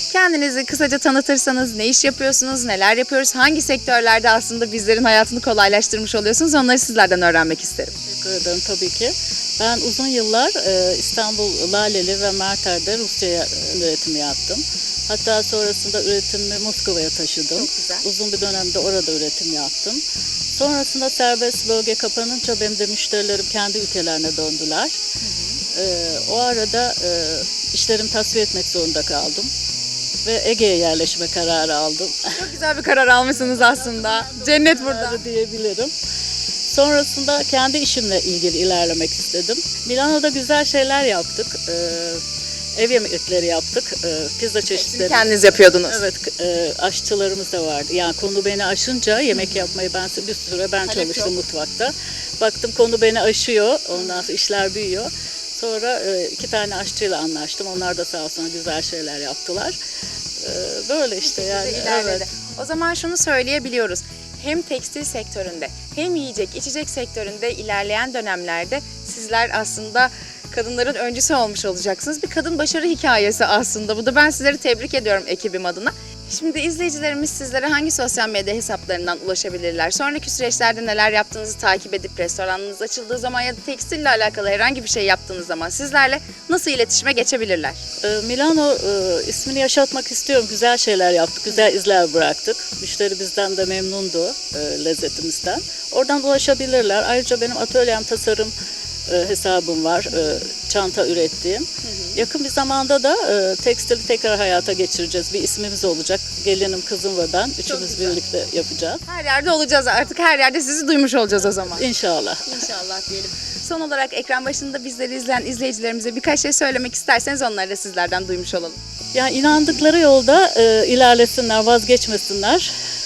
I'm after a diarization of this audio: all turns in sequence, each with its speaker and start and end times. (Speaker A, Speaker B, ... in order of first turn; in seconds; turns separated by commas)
Speaker A: 0.1-7.9, Speaker B: 7.9-20.0, Speaker A: 17.6-18.1, Speaker B: 20.5-25.0, Speaker A: 25.2-25.6, Speaker B: 25.7-29.5, Speaker B: 30.2-32.4, Speaker A: 32.3-35.2, Speaker B: 33.5-35.9, Speaker B: 36.7-42.2, Speaker B: 42.8-59.8, Speaker A: 44.7-46.0, Speaker A: 49.3-49.6, Speaker A: 50.9-51.3, Speaker A: 54.0-54.3, Speaker B: 60.4-62.2, Speaker A: 61.2-87.8, Speaker B: 88.0-98.5, Speaker B: 99.1-109.0, Speaker A: 101.8-102.2, Speaker A: 107.7-108.2, Speaker A: 109.1-111.8, Speaker B: 111.7-112.5, Speaker A: 112.5-118.8, Speaker B: 119.1-122.7